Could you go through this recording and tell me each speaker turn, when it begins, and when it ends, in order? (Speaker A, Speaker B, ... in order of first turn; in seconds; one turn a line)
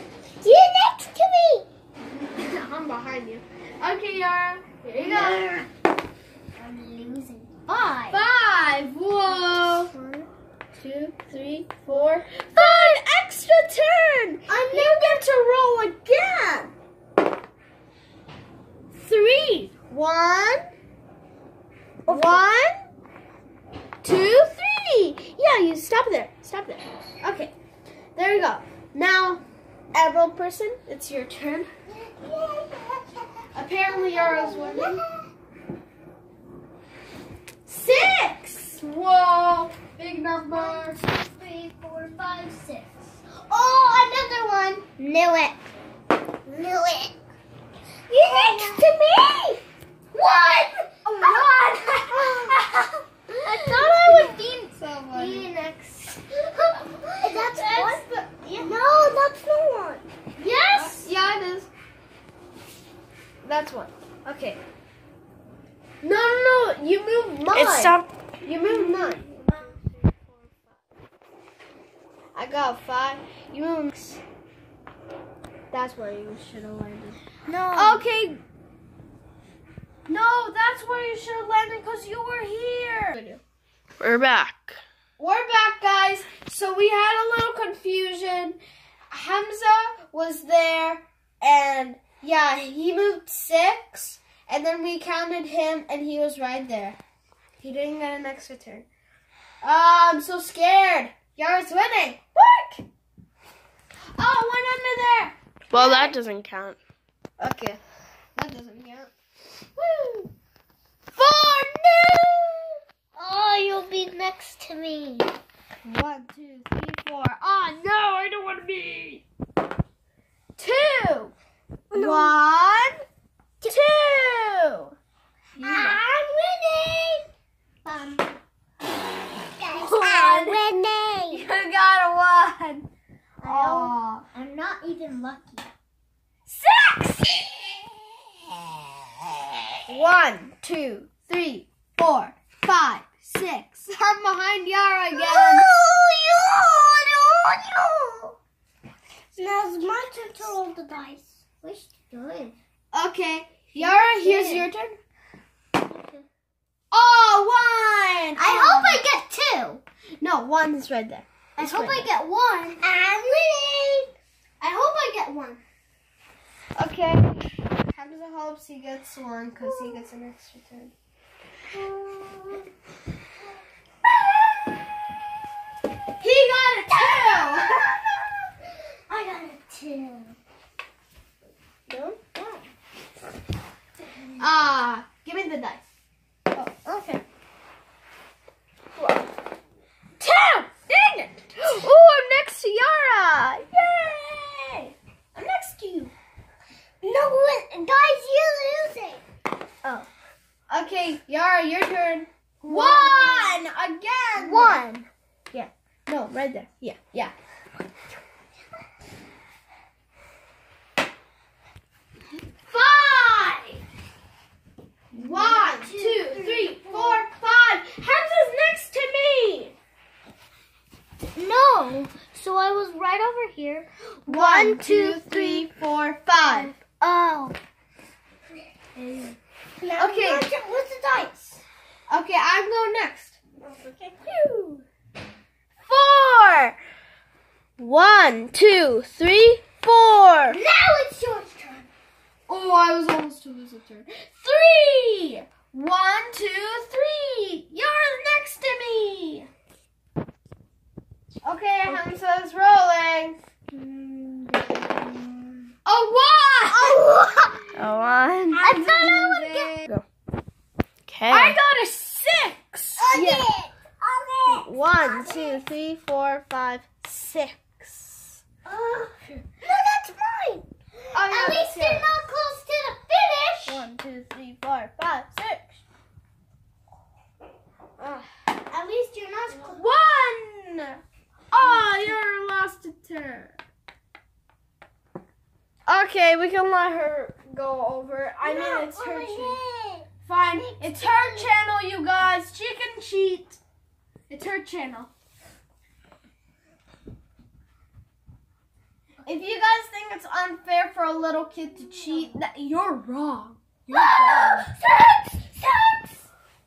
Speaker A: 0.4-1.6
Speaker B: 2.1-5.4
Speaker A: 5.0-5.7
Speaker A: 6.5-8.2
Speaker B: 8.1-16.7
Speaker A: 12.6-12.9
Speaker A: 14.5-15.2
Speaker B: 18.9-20.6
Speaker A: 22.1-22.4
Speaker B: 22.1-22.8
Speaker B: 24.0-27.5
Speaker B: 28.1-29.4
Speaker B: 29.9-31.7
Speaker A: 31.9-35.2
Speaker B: 33.5-35.0
Speaker B: 37.6-41.0
Speaker A: 40.4-42.9
Speaker A: 43.5-45.6
Speaker A: 46.5-47.1
Speaker A: 48.1-49.6
Speaker B: 48.3-48.8
Speaker A: 50.1-52.6
Speaker B: 51.0-52.6
Speaker A: 53.4-58.0
Speaker B: 53.6-55.5
Speaker B: 57.5-58.7
Speaker A: 58.5-61.1
Speaker B: 60.7-61.7
Speaker B: 63.4-64.6
Speaker B: 66.0-70.3
Speaker C: 67.5-68.1
Speaker A: 69.0-69.6
Speaker B: 72.3-74.2
Speaker B: 75.7-77.2
Speaker A: 77.5-78.0
Speaker B: 77.8-78.4
Speaker B: 80.1-83.4
Speaker C: 84.3-84.8
Speaker B: 85.2-88.6
Speaker B: 89.1-97.0
Speaker B: 97.6-98.8
Speaker B: 99.6-102.8
Speaker B: 104.2-106.2
Speaker C: 105.7-106.8
Speaker A: 105.7-106.2
Speaker B: 107.4-107.8
Speaker B: 108.3-109.1
Speaker A: 109.8-110.3
Speaker B: 111.1-112.8
Speaker A: 113.2-115.3
Speaker B: 115.8-119.2
Speaker B: 120.6-121.3
Speaker A: 121.9-122.3
Speaker B: 121.9-123.0
Speaker B: 123.7-124.9
Speaker B: 125.6-126.0
Speaker A: 125.6-127.3
Speaker A: 127.8-128.4
Speaker A: 129.5-131.4
Speaker B: 129.7-130.6
Speaker B: 131.3-132.9
Speaker A: 133.4-135.7
Speaker B: 133.4-134.2
Speaker B: 136.4-137.7
Speaker B: 139.9-145.7
Speaker A: 145.1-148.3
Speaker A: 149.3-152.6
Speaker B: 152.9-155.0
Speaker A: 153.7-154.7
Speaker A: 155.8-156.2
Speaker B: 156.9-159.0
Speaker A: 158.4-159.8
Speaker B: 160.2-162.1
Speaker A: 161.6-165.6
Speaker B: 166.8-167.4
Speaker B: 167.9-170.9
Speaker A: 171.7-172.7
Speaker B: 176.2-177.9
Speaker A: 177.0-177.8
Speaker A: 179.1-180.3
Speaker B: 181.9-182.1
Speaker A: 182.1-182.6
Speaker B: 184.4-185.8
Speaker B: 186.5-187.2
Speaker B: 188.9-189.2
Speaker B: 190.2-196.1
Speaker A: 197.0-199.2
Speaker B: 200.7-204.8
Speaker A: 202.6-203.6
Speaker A: 204.3-205.7
Speaker B: 206.1-207.3
Speaker B: 212.7-213.8
Speaker A: 215.1-217.3
Speaker B: 215.1-219.7
Speaker A: 221.3-225.7
Speaker B: 224.3-226.7
Speaker A: 226.4-227.6
Speaker A: 228.9-231.6
Speaker B: 230.0-230.5
Speaker B: 232.1-233.4
Speaker A: 233.6-234.8
Speaker B: 235.8-236.8
Speaker B: 237.8-240.6
Speaker A: 240.5-241.9
Speaker B: 242.5-249.5
Speaker B: 251.4-253.4
Speaker A: 251.8-252.2
Speaker A: 253.7-255.7
Speaker B: 255.8-257.0
Speaker A: 256.7-257.7
Speaker B: 257.8-260.0
Speaker A: 258.5-259.9
Speaker C: 261.1-261.5
Speaker B: 261.3-263.5
Speaker A: 263.0-265.6
Speaker B: 264.5-268.4
Speaker A: 268.7-273.8
Speaker B: 271.1-272.1
Speaker B: 273.6-275.8
Speaker B: 278.0-278.3
Speaker A: 278.7-279.8
Speaker B: 279.6-281.0
Speaker B: 281.5-283.6
Speaker A: 281.6-282.1
Speaker B: 285.9-289.6
Speaker A: 288.4-291.5
Speaker B: 290.2-293.6
Speaker B: 294.3-295.1
Speaker B: 299.2-304.7
Speaker A: 303.9-306.2